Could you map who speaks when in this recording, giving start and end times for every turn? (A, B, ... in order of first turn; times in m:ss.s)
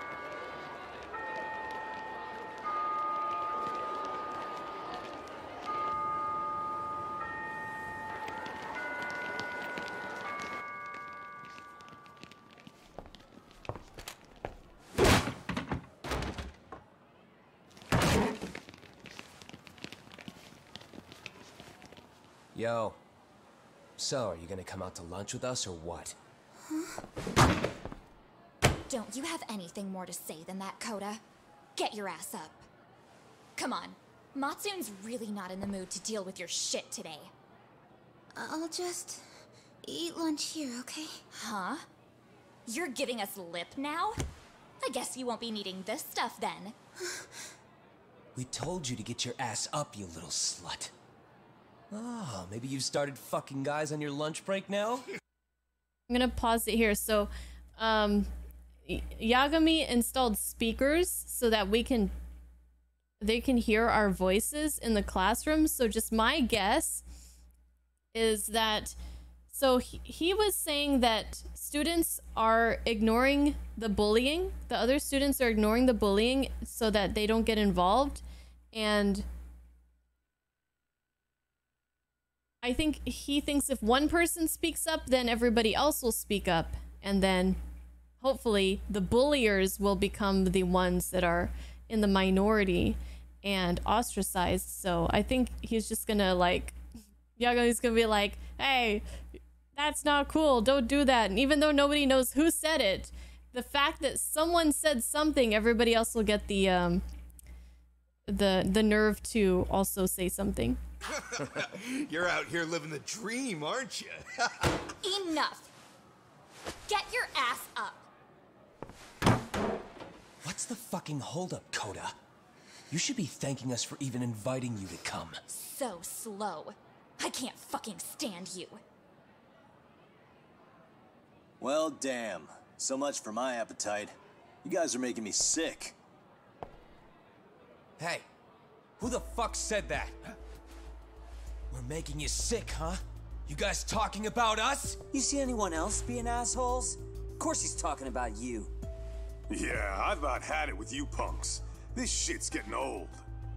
0:22.5-0:23.0 A
0:24.0-0:26.2 A
0:28.9-0:31.2 B
0:31.8-0:32.6 B
0:33.6-0:37.3 B
0:38.4-0:39.2 C
0:39.8-0:41.2 C
0:41.3-0:41.9 B
0:42.6-0:44.2 B
0:44.8-0:46.8 B
0:48.4-0:50.9 A
0:51.9-0:55.0 A
0:56.1-0:58.3 D
0:58.9-1:02.1 D
1:03.2-1:07.0 D
1:08.1-1:09.0 D
1:09.5-1:19.3 D
1:22.6-1:27.6 D
1:28.2-1:36.8 D
1:37.4-1:39.0 D
1:39.7-1:47.0 D
1:48.3-1:50.8 D
1:51.2-1:54.5 E
1:55.0-1:55.7 B
1:56.9-1:58.0 B
2:00.4-2:02.2 A
2:02.9-2:05.4 A
2:05.5-2:08.8 B
2:11.6-2:16.0 F
2:18.0-2:18.2 A
2:19.0-2:20.2 A
2:21.7-2:25.0 A
2:25.1-2:28.7 G
2:29.5-2:33.2 H